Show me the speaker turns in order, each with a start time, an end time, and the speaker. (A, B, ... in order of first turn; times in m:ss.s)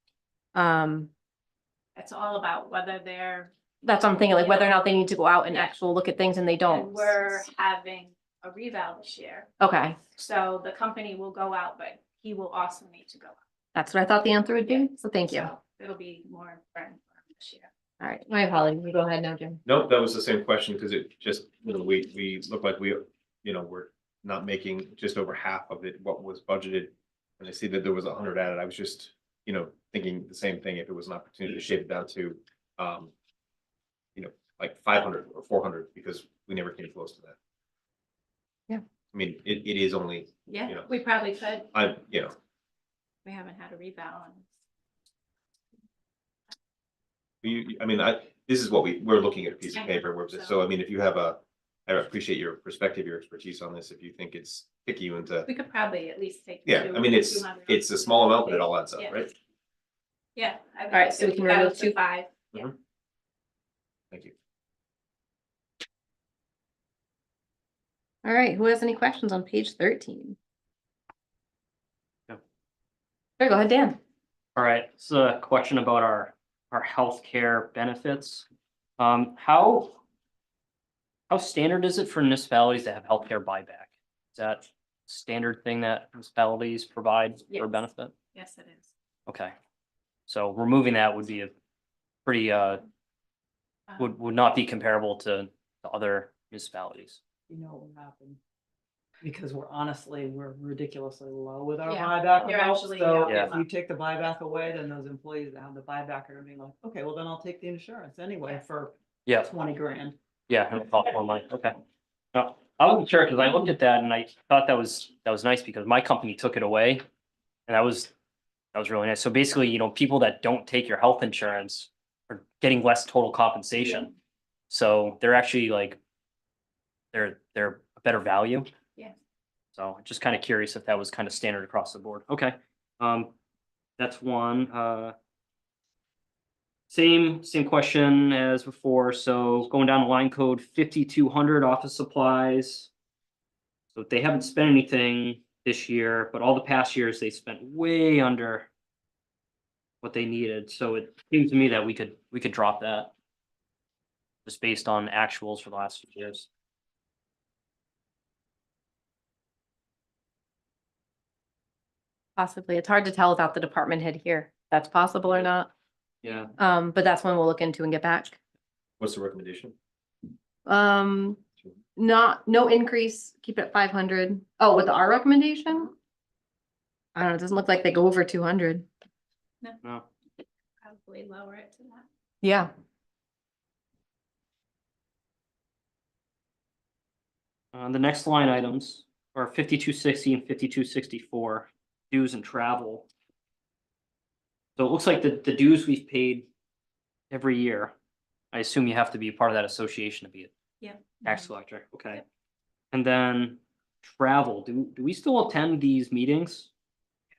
0:00.5-0:01.1 A
0:02.0-0:03.5 B
0:03.8-0:07.4 A
0:04.4-0:04.8 B
0:05.5-0:05.8 B
0:06.6-0:09.5 B
0:09.6-0:10.0 A
0:10.1-0:13.4 B
0:13.7-0:15.5 A
0:14.6-0:17.7 B
0:18.0-0:19.6 A
0:19.7-0:33.1 C
0:34.2-0:37.4 C
0:39.1-0:40.9 C
0:40.5-0:41.7 B
0:41.7-0:42.3 C
0:43.2-0:44.4 B
0:47.4-0:55.5 C
0:49.7-0:50.5 B
0:55.4-0:59.2 B
0:56.7-0:59.3 C
1:00.3-1:02.6 B
1:00.9-1:02.0 A
1:08.2-1:10.4 A
1:13.4-1:14.0 A
1:14.6-1:18.4 D
1:19.0-1:20.0 D
1:21.3-1:28.1 D
1:28.3-1:28.9 B
1:29.3-1:29.5 D
1:30.3-1:31.5 D
1:32.2-1:32.8 D
1:33.9-1:34.1 B
1:34.0-1:37.2 D
1:37.5-1:38.4 E
1:39.2-1:50.2 E
1:42.4-1:43.6 B
1:43.2-1:43.5 D
1:50.5-1:51.8 D
1:52.3-1:57.0 D
1:57.7-1:58.1 D
1:58.7-2:04.1 D
2:04.7-2:06.0 D
2:07.1-2:08.7 D
2:09.8-2:13.3 D
2:14.0-2:15.1 D
2:16.9-2:22.9 D
2:23.9-2:28.7 D
2:30.0-2:33.1 D
2:34.4-2:36.5 D
2:42.4-2:45.7 A
2:46.2-2:46.5 D
2:46.6-2:48.4 A
2:49.0-2:49.8 C
2:50.7-2:51.4 A
2:52.0-2:55.9 A
2:57.1-2:58.9 A
3:00.8-3:02.1 B
3:02.4-3:02.7 A
3:07.7-3:13.1 D
3:14.8-3:16.5 D
3:17.3-3:17.9 D
3:18.5-3:20.5 D
3:20.8-3:21.5 B
3:21.2-3:22.2 D
3:22.9-3:26.7 D